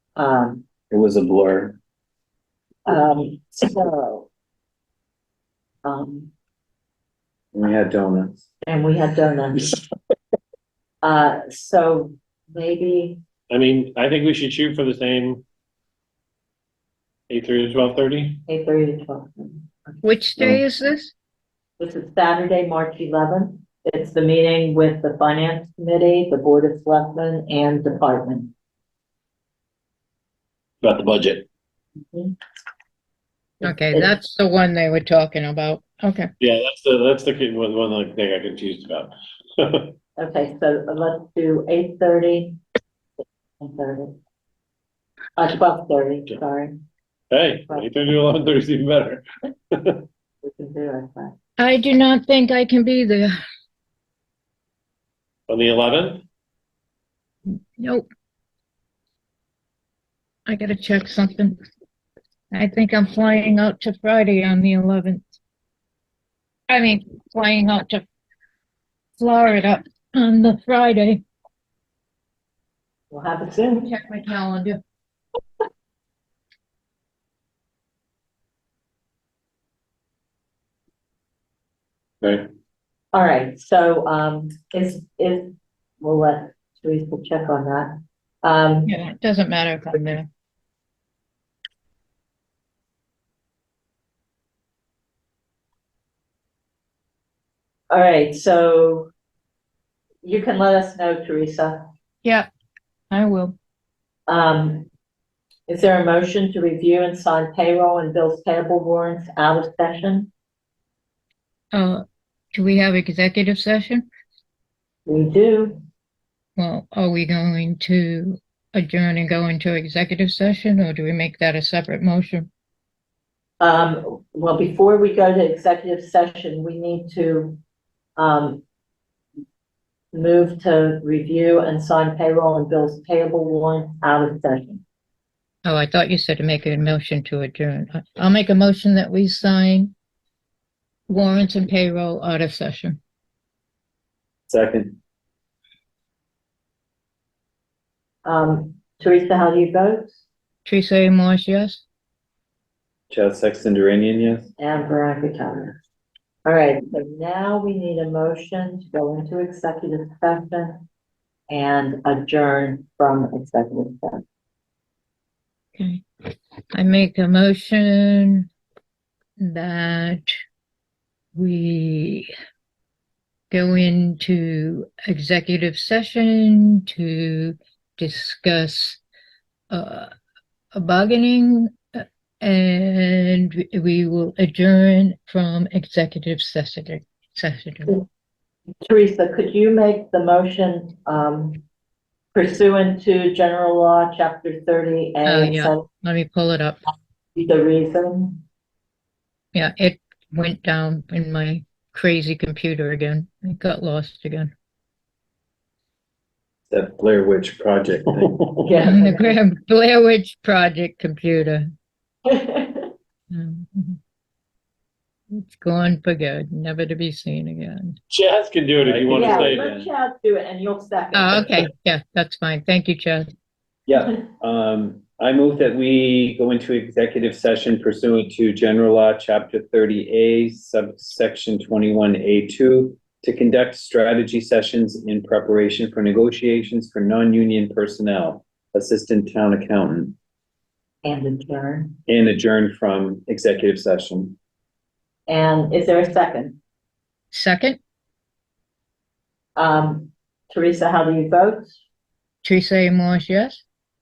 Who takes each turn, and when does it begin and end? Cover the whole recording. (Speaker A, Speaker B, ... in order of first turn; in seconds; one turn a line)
Speaker A: 0.1-0.7
Speaker B: 0.9-1.8
Speaker A: 2.9-4.3
Speaker A: 5.8-6.3
Speaker B: 7.5-8.4
Speaker A: 8.6-9.8
Speaker A: 11.0-13.2
Speaker C: 13.5-15.4
Speaker C: 17.3-18.4
Speaker A: 18.5-19.9
Speaker D: 20.0-21.1
Speaker A: 21.8-28.5
Speaker C: 30.8-31.4
Speaker A: 33.6-34.1
Speaker D: 33.6-36.3
Speaker C: 36.4-39.9
Speaker A: 40.2-42.6
Speaker A: 43.6-44.1
Speaker A: 45.4-46.8
Speaker C: 47.3-50.0
Speaker A: 50.4-51.3
Speaker D: 51.6-53.3
Speaker C: 55.5-56.2
Speaker D: 57.5-58.0
Speaker D: 60.5-61.5
Speaker D: 62.5-65.2
Speaker D: 66.7-68.0
Speaker D: 69.2-71.2
Speaker A: 73.1-73.9
Speaker D: 73.8-74.8
Speaker A: 83.1-85.5
Speaker A: 86.0-88.9
Speaker D: 88.9-90.3
Speaker A: 97.9-99.1
Speaker A: 100.2-101.8
Speaker D: 103.1-103.5
Speaker A: 104.3-104.9
Speaker A: 105.7-110.3
Speaker D: 111.7-114.0
Speaker A: 115.0-115.8
Speaker D: 116.6-122.5
Speaker A: 123.6-127.6
Speaker A: 128.2-128.6
Speaker A: 130.1-134.8
Speaker D: 135.6-139.9
Speaker D: 141.1-143.0
Speaker B: 144.5-145.0
Speaker A: 148.2-150.2
Speaker D: 150.7-151.8
Speaker B: 153.1-154.5
Speaker A: 154.6-155.8
Speaker A: 156.4-160.8
Speaker A: 161.5-164.2
Speaker D: 165.8-166.0
Speaker D: 166.7-168.5
Speaker D: 169.4-170.2
Speaker D: 171.3-172.3
Speaker D: 173.5-179.0
Speaker D: 179.7-180.1
Speaker D: 180.7-187.9
Speaker A: 188.8-191.6
Speaker A: 192.3-195.9
Speaker D: 195.2-196.8
Speaker A: 197.3-198.4
Speaker D: 199.5-204.5
Speaker B: 206.7-208.3
Speaker C: 208.1-208.7
Speaker A: 208.6-209.4
Speaker D: 208.8-211.7
Speaker A: 212.3-212.9
Speaker D: 213.3-214.0
Speaker D: 215.3-218.0
Speaker C: 218.1-219.7
Speaker B: 218.8-219.9
Speaker A: 219.1-221.5
Speaker D: 221.1-223.3
Speaker B: 223.9-240.2
Speaker A: 241.0-241.9
Speaker B: 242.1-244.3
Speaker A: 245.3-246.6
Speaker D: 247.3-247.8
Speaker A: 249.6-251.8
Speaker D: 252.4-253.6